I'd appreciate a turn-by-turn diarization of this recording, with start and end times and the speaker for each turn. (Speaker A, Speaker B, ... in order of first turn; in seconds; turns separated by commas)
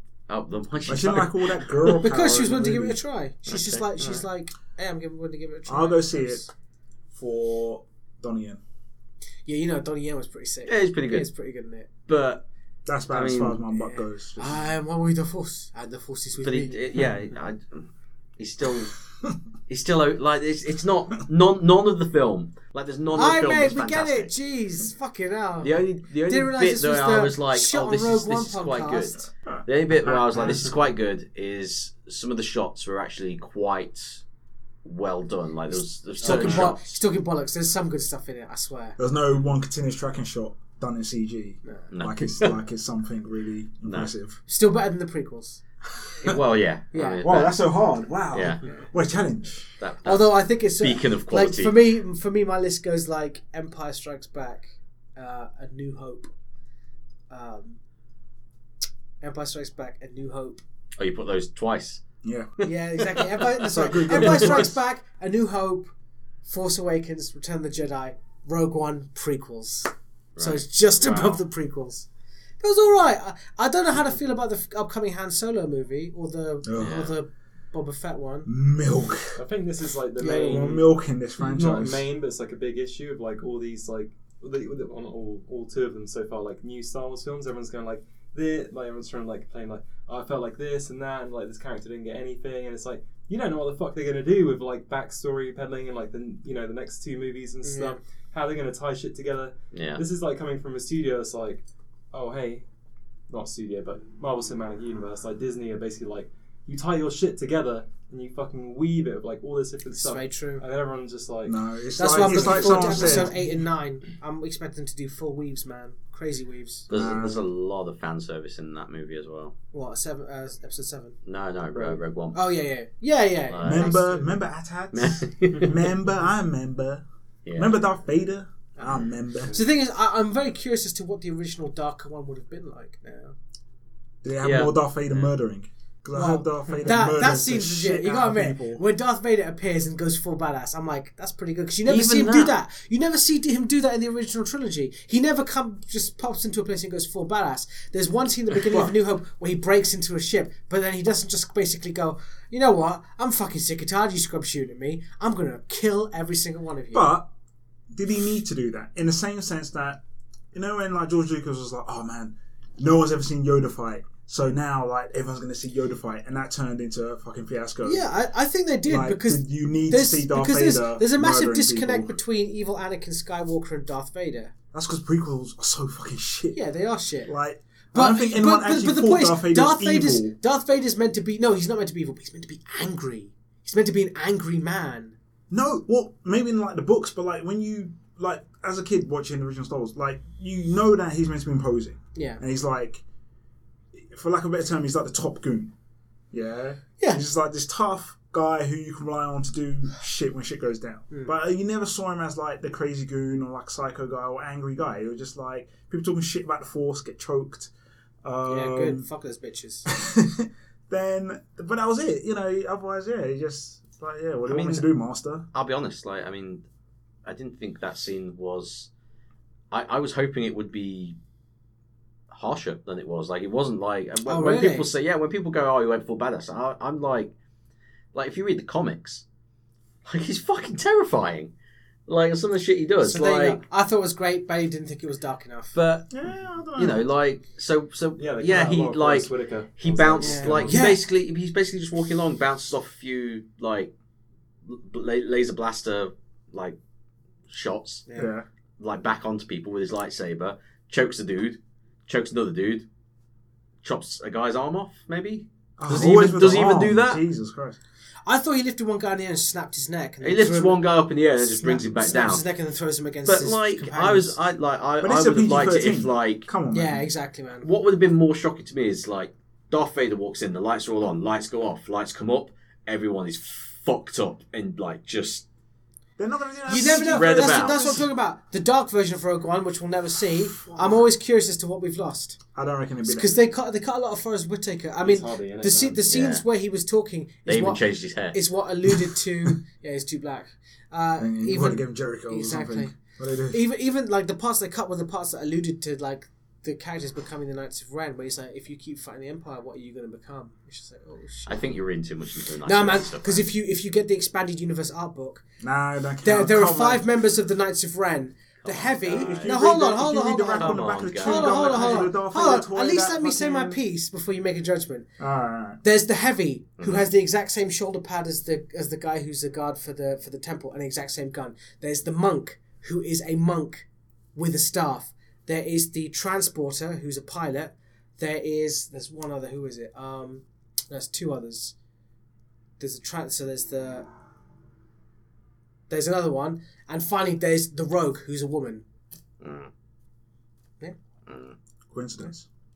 Speaker A: 0.3-1.9, Speaker B: 0.9-3.0, Speaker C: 1.9-6.5, Speaker A: 3.5-4.2, Speaker B: 5.7-6.5, Speaker B: 7.1-8.6, Speaker C: 9.5-11.9, Speaker A: 10.7-11.3, Speaker A: 12.1-12.4, Speaker B: 12.9-14.7, Speaker A: 13.1-13.6, Speaker C: 13.8-16.8, Speaker A: 16.4-18.9, Speaker A: 19.7-24.3, Speaker C: 23.1-29.2, Speaker A: 25.6-34.2, Speaker B: 29.5-30.7, Speaker A: 34.8-37.0, Speaker C: 36.2-39.0, Speaker B: 36.2-36.7, Speaker B: 39.0-44.4, Speaker A: 41.9-42.6, Speaker A: 43.8-44.1, Speaker C: 44.5-45.6, Speaker A: 46.2-47.6, Speaker C: 46.9-47.2, Speaker B: 47.2-49.7, Speaker A: 48.3-48.6, Speaker A: 49.8-51.8, Speaker C: 50.0-56.3, Speaker C: 57.3-57.8, Speaker C: 59.2-60.6, Speaker A: 61.0-62.0, Speaker B: 62.2-62.5, Speaker A: 62.6-63.3, Speaker C: 62.6-65.9, Speaker B: 63.6-64.8, Speaker A: 64.0-64.6, Speaker C: 66.5-72.1, Speaker A: 70.4-71.3, Speaker C: 72.6-78.5, Speaker B: 76.6-77.0, Speaker A: 76.8-77.2, Speaker B: 78.5-79.4, Speaker D: 79.3-102.7, Speaker C: 80.2-80.7, Speaker B: 80.3-82.1, Speaker C: 97.6-98.0, Speaker A: 99.7-100.0, Speaker D: 103.3-111.6, Speaker C: 110.0-110.6, Speaker B: 111.4-113.6, Speaker C: 112.0-116.9, Speaker D: 112.1-113.3, Speaker A: 116.9-119.5, Speaker B: 116.9-117.5, Speaker C: 119.7-121.2, Speaker A: 121.3-122.4, Speaker C: 122.3-124.3, Speaker A: 123.5-124.0, Speaker B: 123.6-127.0, Speaker A: 124.9-125.9, Speaker A: 127.5-127.8, Speaker B: 127.5-129.6, Speaker C: 128.8-133.3, Speaker D: 129.4-129.7, Speaker B: 134.2-138.8, Speaker A: 134.4-135.3, Speaker C: 136.1-157.1, Speaker A: 141.9-142.5, Speaker B: 156.9-157.3, Speaker B: 157.9-160.0, Speaker B: 160.5-168.1, Speaker C: 167.8-174.5, Speaker B: 168.9-172.2, Speaker B: 174.7-176.6, Speaker C: 176.5-177.3, Speaker B: 177.2-180.4, Speaker C: 177.9-185.2, Speaker B: 185.5-193.0, Speaker C: 192.2-192.4, Speaker B: 194.0-195.7, Speaker B: 196.3-207.7, Speaker C: 197.0-197.3, Speaker B: 208.2-209.1, Speaker C: 208.5-209.9, Speaker B: 209.9-215.5, Speaker A: 214.5-214.9, Speaker A: 215.5-216.6, Speaker A: 217.2-218.9, Speaker A: 219.7-221.2, Speaker A: 222.3-227.3, Speaker C: 224.2-224.9, Speaker A: 228.1-229.2, Speaker A: 230.1-231.5, Speaker A: 232.1-233.6, Speaker C: 233.0-235.8, Speaker A: 235.7-236.1, Speaker B: 236.1-237.1, Speaker A: 236.8-243.9, Speaker D: 238.2-240.8, Speaker C: 240.2-241.0, Speaker A: 244.7-246.8, Speaker A: 247.5-248.1, Speaker C: 248.1-248.3, Speaker B: 248.2-248.5, Speaker A: 248.8-252.9, Speaker A: 253.8-257.2, Speaker B: 255.8-257.8, Speaker C: 258.3-260.8, Speaker A: 260.2-262.4, Speaker C: 261.5-264.4, Speaker A: 263.2-266.5, Speaker B: 265.0-267.1, Speaker C: 266.7-267.7, Speaker A: 267.6-275.5, Speaker B: 276.2-278.0, Speaker C: 276.7-282.4, Speaker A: 276.7-278.0, Speaker B: 282.6-283.3, Speaker C: 283.0-287.8, Speaker D: 285.0-286.0, Speaker A: 286.1-286.4, Speaker A: 287.5-288.4, Speaker C: 288.3-292.9, Speaker B: 291.2-293.6, Speaker C: 293.5-301.8, Speaker A: 301.5-303.5, Speaker C: 302.6-305.4, Speaker B: 305.6-307.1, Speaker C: 306.2-315.1, Speaker A: 308.6-309.6, Speaker B: 309.1-313.8, Speaker A: 310.6-312.1, Speaker B: 315.2-315.8, Speaker C: 315.8-331.7, Speaker A: 316.8-317.1, Speaker C: 332.8-334.1, Speaker C: 335.9-338.8, Speaker A: 339.4-339.7, Speaker A: 341.3-341.6, Speaker B: 341.9-342.5